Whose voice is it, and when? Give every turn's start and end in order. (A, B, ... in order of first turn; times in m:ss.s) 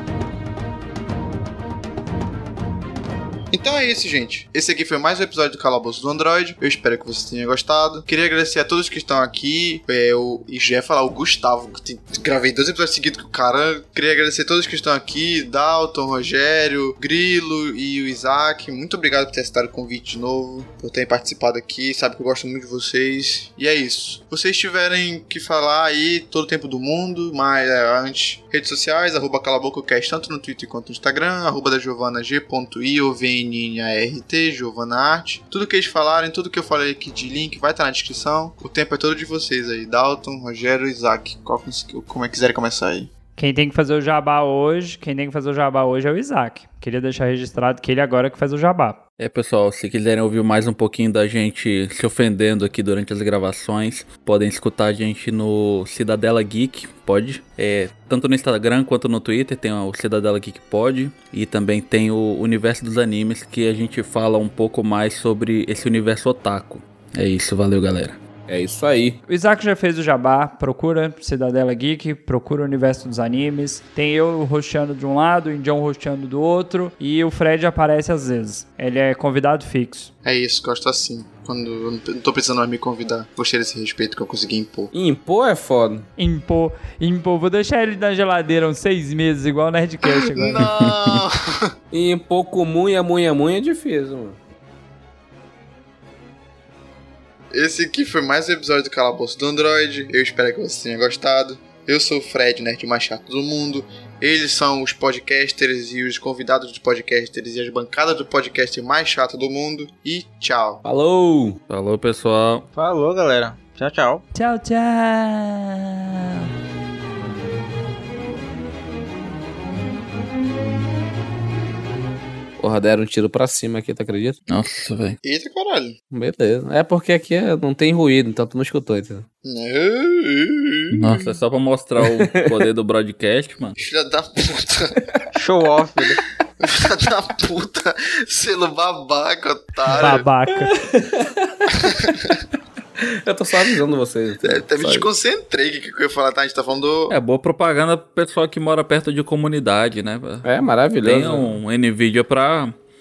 0:03.5-0:43.1 A
0:43.4-0:49.0 B
0:49.2-1:08.2 C
1:08.5-1:09.2 D
1:09.3-1:20.1 B
1:20.2-1:24.9 A
1:24.9-1:26.1 D
1:26.2-1:30.6 B
1:30.0-1:31.7 A
1:31.9-1:34.4 D
1:37.5-1:50.8 A
1:50.8-1:51.6 D
1:51.7-1:52.6 C
1:52.7-1:54.2 E
1:54.3-1:56.5 B
2:02.6-2:04.4 D
2:04.5-2:05.2 C
2:05.2-2:06.0 A
2:06.1-2:09.2 D
2:09.4-2:11.4 A
2:10.9-2:13.8 C
2:12.0-2:12.7 D
2:13.8-2:15.0 A
2:15.3-2:16.2 E
2:16.6-2:20.2 A
2:20.0-2:20.7 B
2:20.5-2:22.3 D
2:21.9-2:22.4 A
2:23.0-2:25.1 D
2:24.4-2:27.2 A
2:27.1-2:30.5 C
2:30.4-2:31.6 D
2:31.0-2:32.7 C